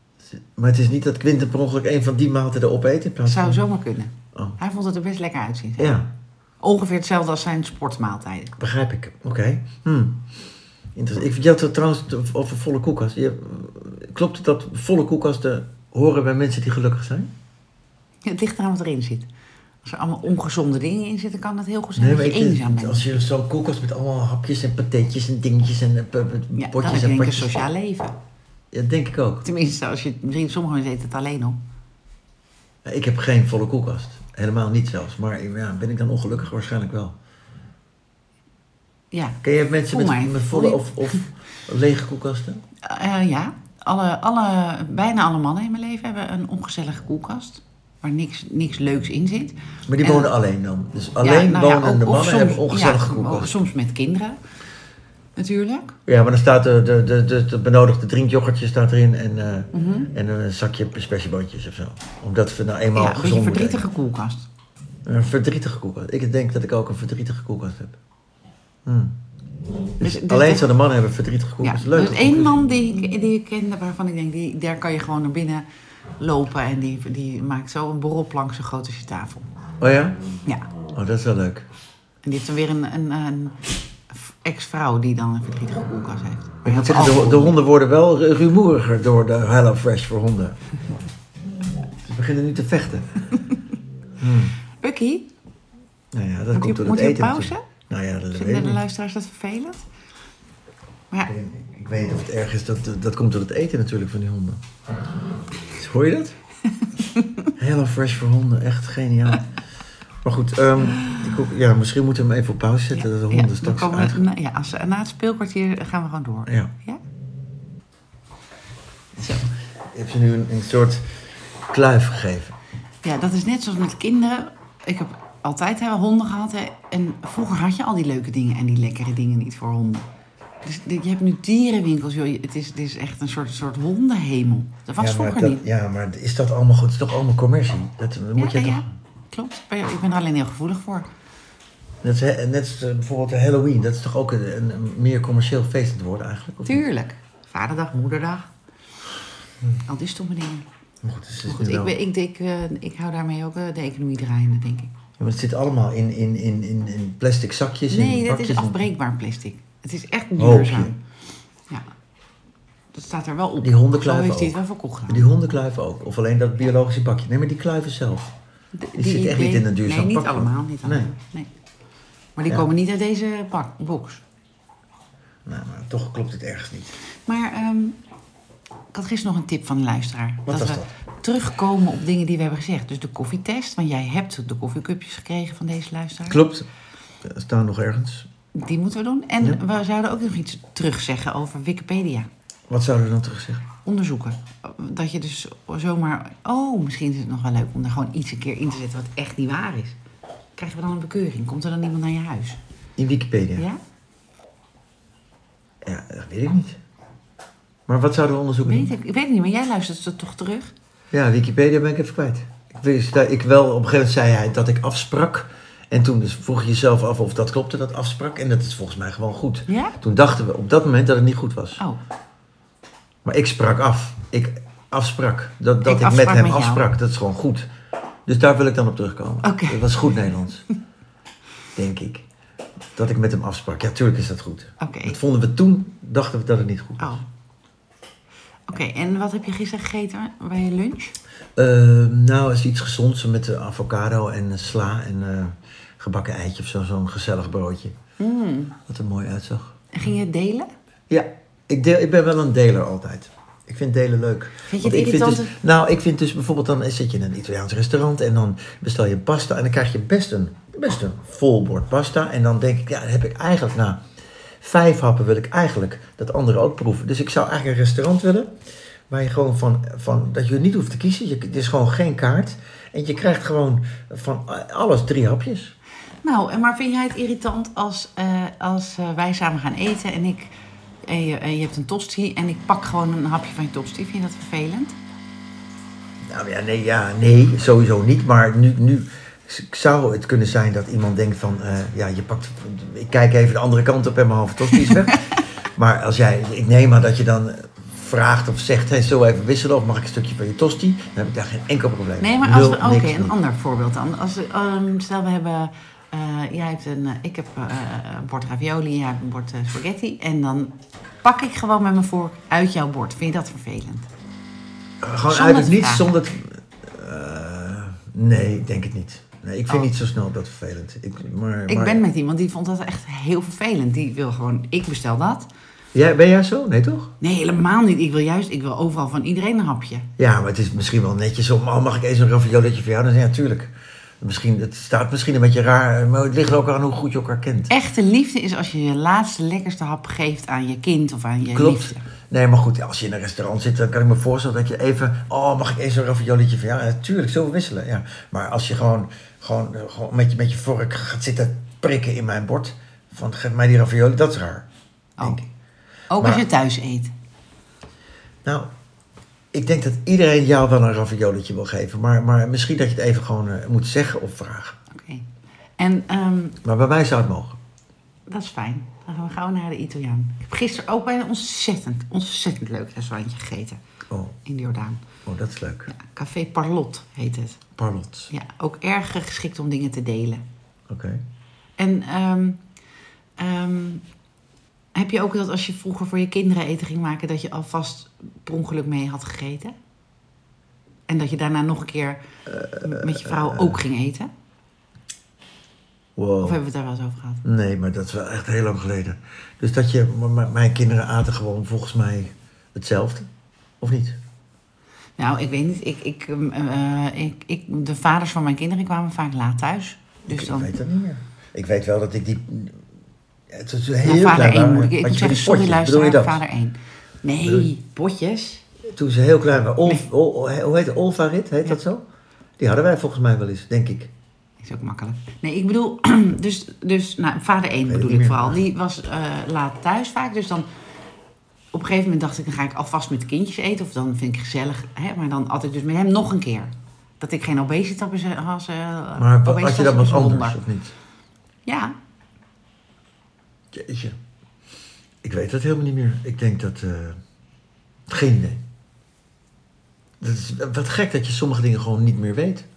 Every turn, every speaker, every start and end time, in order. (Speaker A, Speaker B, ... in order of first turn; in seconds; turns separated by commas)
Speaker A: 0.2-3.6, Speaker B: 3.2-6.0, Speaker A: 5.8-6.1, Speaker B: 6.6-8.6, Speaker A: 8.6-10.2, Speaker A: 10.9-17.3, Speaker B: 18.2-19.3, Speaker B: 19.8-23.1, Speaker A: 21.9-27.6, Speaker B: 26.5-28.1, Speaker A: 28.7-29.4, Speaker B: 29.4-31.6, Speaker A: 32.8-37.1, Speaker B: 39.1-41.2, Speaker A: 39.4-42.6, Speaker B: 42.8-50.3, Speaker A: 49.9-53.6, Speaker B: 51.2-54.4, Speaker B: 55.4-56.0, Speaker A: 56.1-63.8, Speaker B: 59.7-60.1, Speaker B: 62.9-64.5, Speaker A: 65.0-68.0, Speaker A: 68.8-69.2, Speaker A: 70.0-72.7, Speaker B: 70.0-70.7, Speaker B: 71.6-75.6, Speaker B: 76.2-79.5, Speaker A: 79.8-80.2, Speaker A: 80.9-81.7, Speaker B: 82.2-83.6, Speaker B: 84.1-87.5, Speaker A: 86.6-90.6, Speaker A: 92.0-93.2, Speaker A: 94.2-94.5, Speaker B: 94.8-95.3, Speaker A: 96.1-98.8, Speaker B: 96.5-97.7, Speaker B: 98.3-99.8, Speaker A: 101.2-104.6, Speaker A: 105.7-106.3, Speaker B: 107.0-107.5, Speaker A: 107.6-109.4, Speaker A: 110.2-114.2, Speaker B: 112.9-117.0, Speaker A: 119.9-121.0, Speaker A: 121.7-122.5, Speaker B: 123.0-130.1, Speaker B: 130.6-135.6, Speaker A: 135.0-138.9, Speaker B: 138.3-141.1, Speaker A: 142.0-146.8, Speaker B: 146.6-148.5, Speaker B: 149.9-150.6, Speaker A: 151.0-151.9, Speaker B: 151.5-154.9, Speaker A: 155.2-158.8, Speaker B: 157.9-161.0, Speaker A: 160.4-160.9, Speaker B: 162.9-165.3, Speaker A: 163.6-164.6, Speaker A: 165.1-168.3, Speaker B: 168.8-171.5, Speaker A: 168.9-171.1, Speaker B: 172.3-174.2, Speaker A: 175.4-176.9, Speaker B: 177.2-178.0, Speaker B: 178.9-186.4, Speaker A: 180.5-180.9, Speaker A: 186.3-186.7, Speaker A: 187.2-188.3, Speaker B: 188.5-192.3, Speaker A: 192.7-193.7, Speaker B: 193.8-200.0, Speaker B: 200.6-202.6, Speaker A: 203.0-203.7, Speaker A: 205.8-206.8, Speaker A: 207.9-208.9, Speaker B: 208.6-210.7, Speaker A: 211.1-221.8, Speaker B: 219.7-219.9, Speaker A: 223.2-227.7, Speaker B: 225.8-226.8, Speaker A: 228.3-230.6, Speaker B: 229.4-230.2, Speaker A: 231.8-232.2, Speaker A: 232.9-237.2, Speaker B: 234.8-235.2, Speaker B: 238.7-241.1, Speaker A: 241.6-247.9, Speaker B: 248.2-248.8, Speaker A: 248.9-249.8, Speaker B: 249.9-250.7, Speaker A: 251.1-264.0, Speaker B: 254.7-255.5, Speaker A: 264.6-268.5, Speaker A: 269.1-275.7, Speaker B: 276.2-280.5, Speaker B: 281.1-284.9, Speaker A: 286.2-303.3, Speaker B: 294.9-295.2, Speaker B: 302.2-314.1, Speaker A: 315.0-322.0, Speaker B: 315.3-316.1, Speaker B: 321.7-325.5, Speaker A: 325.9-327.1, Speaker B: 327.2-330.1, Speaker A: 330.2-337.7, Speaker B: 337.7-342.0, Speaker A: 341.5-354.7, Speaker A: 355.2-355.4, Speaker B: 356.1-357.1, Speaker A: 356.2-356.4, Speaker A: 359.5-364.8, Speaker B: 364.9-365.2, Speaker B: 365.8-366.6, Speaker A: 366.6-367.6, Speaker B: 368.3-373.8, Speaker A: 374.1-374.4, Speaker B: 374.4-375.0, Speaker A: 375.2-375.9, Speaker B: 375.9-377.6, Speaker A: 377.8-378.3, Speaker B: 378.3-380.4, Speaker A: 380.9-381.2, Speaker B: 381.8-382.6, Speaker B: 383.4-384.0, Speaker B: 384.9-389.7, Speaker B: 391.1-392.2, Speaker A: 392.5-393.8, Speaker B: 392.8-394.3, Speaker A: 396.1-396.6, Speaker B: 396.4-397.4, Speaker A: 397.4-403.3, Speaker A: 403.8-404.2, Speaker B: 405.2-410.7, Speaker A: 410.2-412.8, Speaker A: 413.5-416.4, Speaker B: 414.0-418.6, Speaker A: 417.4-417.7, Speaker A: 418.9-422.0, Speaker A: 422.6-424.1, Speaker B: 424.6-430.6, Speaker A: 427.9-428.6, Speaker B: 431.7-440.6, Speaker A: 439.2-440.9, Speaker B: 441.6-441.9, Speaker A: 443.7-444.1, Speaker A: 445.2-447.2, Speaker A: 448.1-448.6, Speaker A: 450.2-452.6